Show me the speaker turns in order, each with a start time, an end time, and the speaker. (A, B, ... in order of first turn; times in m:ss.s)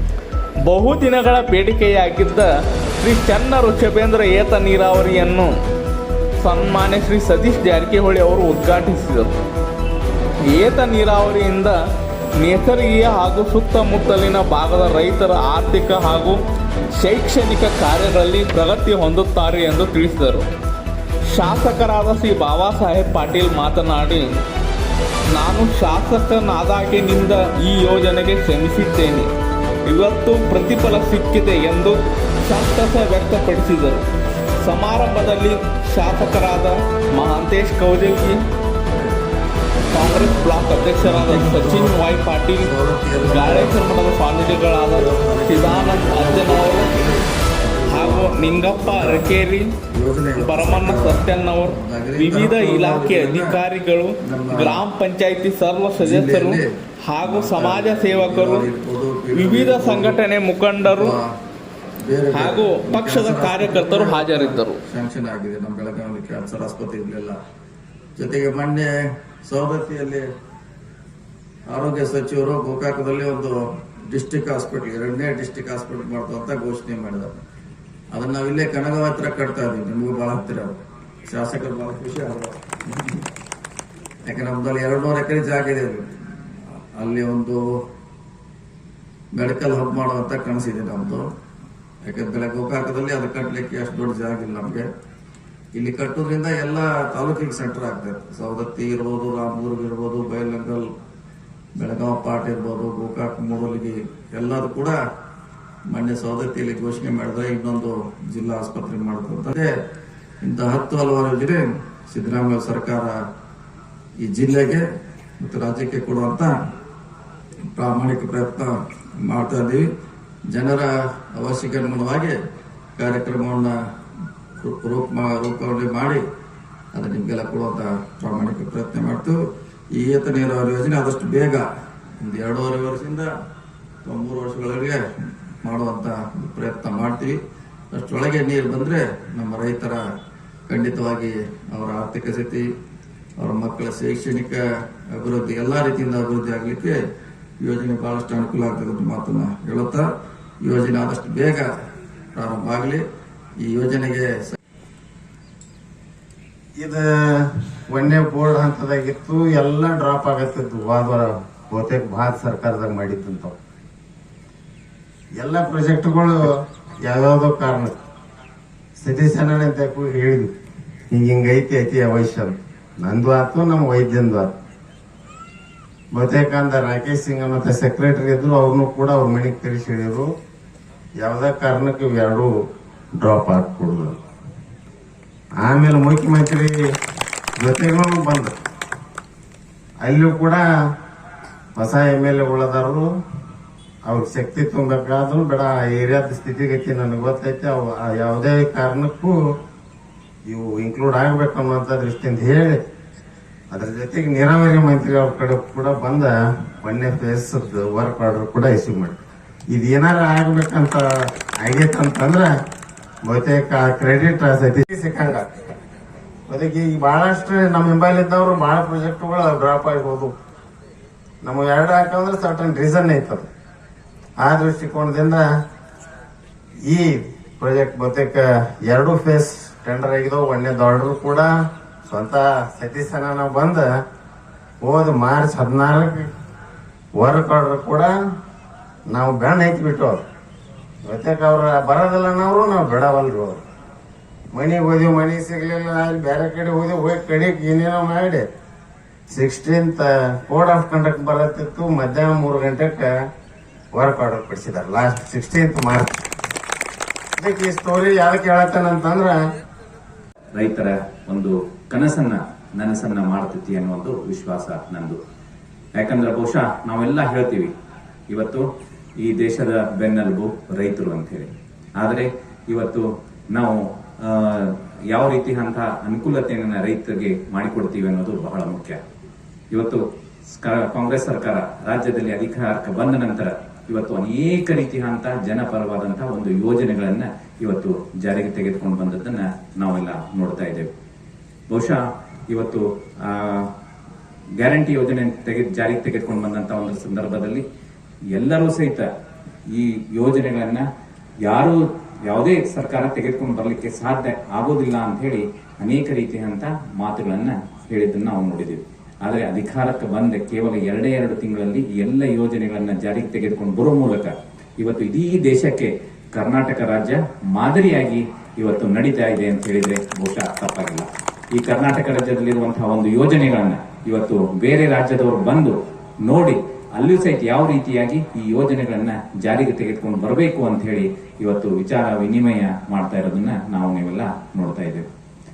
0:00.6-0:05.5 A
0:06.4-0:09.4 A
0:10.4-0:11.8 A
0:12.4-0:16.4 A
0:17.0-0:20.5 A
0:21.3-0:24.3 A
0:25.3-0:29.3 A
0:29.8-0:34.0 A
0:34.6-0:38.4 A
0:39.8-0:42.0 B
0:39.9-0:47.0 A
0:42.6-0:43.8 B
0:44.9-0:49.3 B
0:47.9-0:49.7 A
0:49.9-0:53.6 B
0:50.4-0:58.7 A
0:54.2-0:54.8 B
0:56.0-0:56.7 B
0:57.2-1:00.2 B
0:59.3-1:01.2 A
1:00.8-1:01.2 B
1:02.0-1:07.4 B
1:02.3-1:04.8 A
1:08.2-1:10.2 B
1:11.6-1:13.6 B
1:14.1-1:17.4 B
1:18.1-1:22.6 B
1:24.2-1:26.0 B
1:26.7-1:27.6 B
1:29.3-1:31.2 B
1:32.0-1:34.9 B
1:35.7-1:40.9 B
1:41.8-1:45.0 B
1:45.9-1:49.7 B
1:50.4-1:53.2 B
1:54.2-1:54.8 B
1:55.4-1:56.5 B
1:57.7-1:59.8 B
2:00.5-2:02.4 B
2:03.0-2:03.7 B
2:04.6-2:06.2 B
2:06.9-2:09.4 B
2:09.9-2:11.6 B
2:12.2-2:13.3 B
2:14.0-2:15.0 B
2:15.6-2:17.4 B
2:17.9-2:20.0 B
2:20.7-2:22.7 B
2:23.4-2:27.0 B
2:27.6-2:30.0 B
2:30.6-2:31.7 B
2:32.3-2:33.0 B
2:33.6-2:34.6 B
2:36.8-2:43.5 C
2:45.4-2:46.5 C
2:47.0-2:47.9 C
2:49.0-2:50.5 C
2:51.1-2:54.5 C
2:56.1-3:00.3 C
3:01.2-3:02.5 C
3:03.2-3:04.2 C
3:05.6-3:06.8 C
3:07.6-3:08.5 C
3:10.0-3:10.6 C
3:11.8-3:13.0 C
3:14.0-3:19.4 C
3:20.5-3:22.8 C
3:23.7-3:31.0 C
3:31.6-3:32.5 C
3:33.2-3:35.4 C
3:36.5-3:40.3 C
3:41.4-3:43.4 C
3:44.4-3:45.4 C
3:46.9-3:51.5 C
3:52.0-3:53.8 C
3:54.8-3:56.3 C
3:57.2-3:58.1 C
3:59.1-4:00.2 C
4:01.0-4:03.6 C
4:04.5-4:08.4 C
4:09.3-4:13.1 C
4:14.0-4:16.2 C
4:17.4-4:19.4 C
4:20.5-4:25.2 D
4:26.0-4:27.7 D
4:28.3-4:28.7 D
4:29.2-4:39.0 D
4:39.7-4:50.9 D
4:51.7-4:53.7 D
4:54.6-4:57.6 D
4:58.3-4:59.1 D
4:59.7-5:00.8 D
5:01.4-5:35.0 D